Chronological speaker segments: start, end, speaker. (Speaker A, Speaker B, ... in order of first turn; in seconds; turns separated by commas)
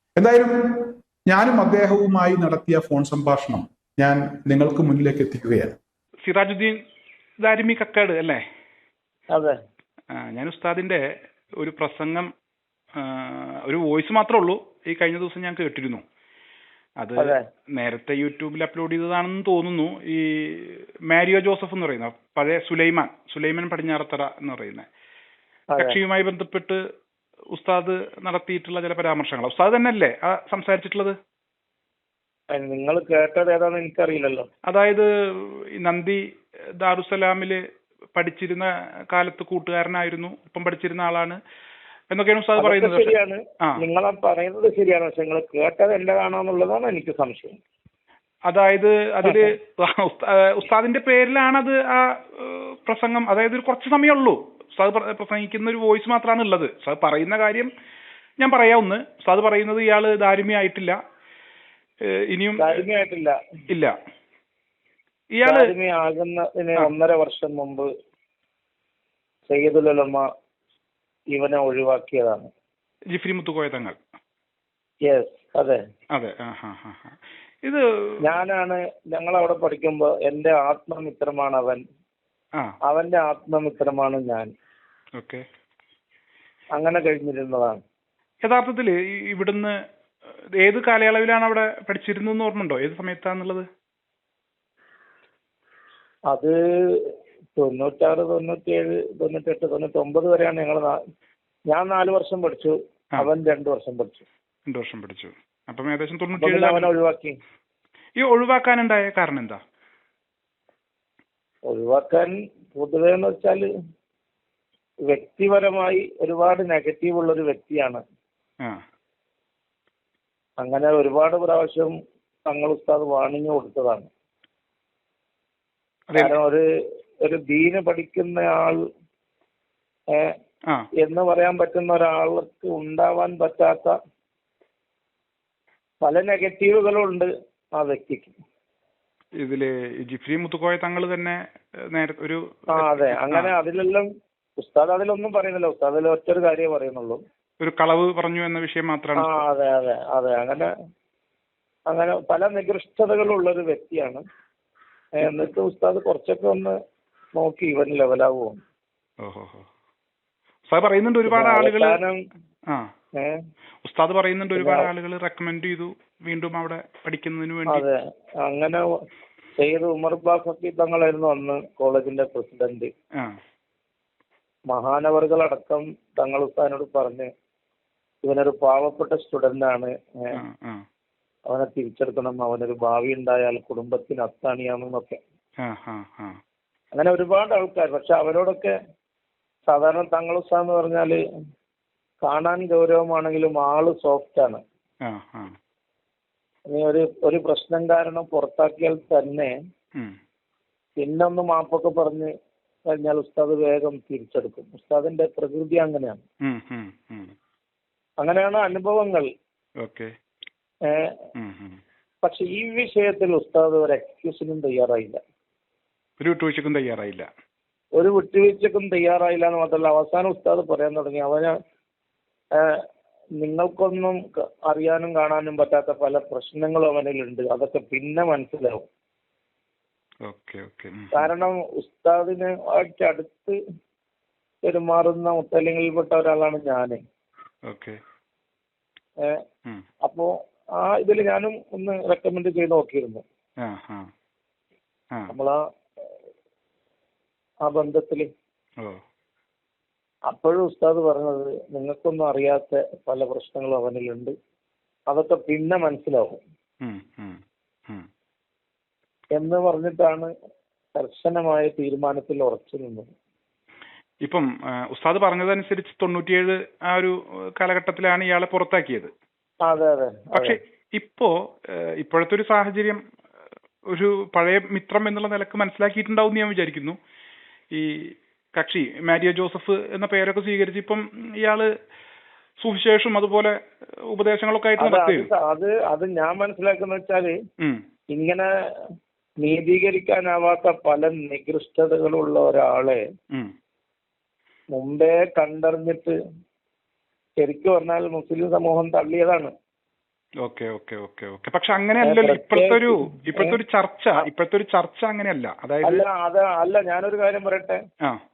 Speaker A: 0.2-5.8, Speaker B: 6.2-6.8, Speaker B: 7.4-8.4, Speaker B: 10.1-11.0, Speaker B: 11.6-12.3, Speaker B: 13.0-16.0, Speaker B: 17.0-24.9, Speaker C: 25.7-26.0, Speaker B: 25.8-26.8, Speaker B: 27.5-31.1, Speaker C: 32.5-34.5, Speaker B: 34.7-36.2, Speaker B: 36.8-37.6, Speaker B: 38.2-41.4, Speaker B: 42.1-43.8, Speaker C: 42.6-47.6, Speaker B: 48.5-57.7, Speaker C: 49.2-49.5, Speaker B: 58.4-61.0, Speaker B: 62.1-62.8, Speaker C: 62.6-63.4, Speaker B: 63.7-63.9, Speaker B: 65.3-65.7, Speaker C: 65.5-67.9, Speaker C: 69.5-70.3, Speaker C: 71.3-72.5, Speaker B: 73.1-74.0, Speaker C: 75.1-75.8, Speaker B: 76.2-78.2, Speaker C: 78.2-81.8, Speaker C: 82.9-84.5, Speaker B: 85.2-85.4, Speaker C: 86.8-87.8, Speaker B: 88.4-89.7, Speaker B: 90.6-93.7, Speaker C: 96.3-101.0, Speaker C: 101.7-104.3, Speaker B: 104.7-106.9, Speaker C: 106.4-107.3, Speaker B: 108.2-109.6, Speaker C: 111.7-113.7, Speaker C: 115.1-118.0, Speaker C: 120.6-122.0, Speaker C: 122.5-124.1, Speaker B: 126.1-126.4, Speaker C: 126.2-126.6, Speaker C: 127.2-128.8, Speaker C: 131.0-133.9, Speaker C: 136.0-138.3, Speaker B: 139.4-141.4, Speaker B: 141.9-143.5, Speaker C: 142.7-144.1, Speaker C: 144.6-147.2, Speaker B: 147.6-149.4, Speaker C: 149.2-150.7, Speaker C: 151.9-154.2, Speaker C: 155.2-156.7, Speaker B: 155.2-155.5, Speaker C: 157.4-158.6, Speaker B: 159.2-159.7, Speaker B: 160.7-162.0, Speaker C: 161.3-162.2, Speaker B: 163.8-167.8, Speaker C: 164.6-164.9, Speaker C: 167.7-168.8, Speaker C: 169.6-172.9, Speaker C: 174.7-177.3, Speaker C: 178.2-180.4, Speaker B: 180.3-180.8, Speaker C: 181.5-185.2, Speaker B: 185.6-186.4, Speaker C: 186.9-188.7, Speaker C: 189.7-191.2, Speaker C: 192.2-194.6, Speaker B: 195.1-195.6, Speaker C: 196.7-199.5, Speaker C: 201.0-202.3, Speaker C: 202.9-206.2, Speaker B: 206.4-207.3, Speaker C: 208.2-209.3, Speaker B: 209.8-210.1, Speaker C: 210.9-211.2, Speaker B: 211.4-211.8, Speaker C: 212.2-215.2, Speaker B: 216.2-217.3, Speaker C: 218.0-221.5, Speaker C: 222.6-222.8, Speaker C: 223.4-228.9, Speaker B: 230.3-231.3, Speaker C: 231.1-233.6, Speaker C: 234.7-237.0, Speaker B: 237.7-238.0, Speaker C: 240.1-243.2, Speaker B: 243.6-244.1, Speaker C: 245.3-245.6, Speaker C: 247.7-248.3, Speaker C: 250.3-254.3, Speaker C: 255.1-256.4, Speaker B: 256.8-258.1, Speaker C: 259.4-260.3, Speaker C: 261.0-263.1, Speaker B: 264.2-269.1, Speaker C: 269.7-270.6, Speaker B: 270.3-273.0, Speaker B: 273.9-277.0, Speaker B: 277.7-281.7, Speaker B: 282.6-283.6, Speaker B: 284.1-285.3, Speaker C: 284.8-287.3, Speaker C: 288.1-288.5, Speaker C: 289.4-293.0, Speaker C: 294.7-296.2, Speaker C: 297.4-299.5, Speaker B: 300.4-306.1, Speaker C: 302.0-303.6, Speaker C: 305.8-307.8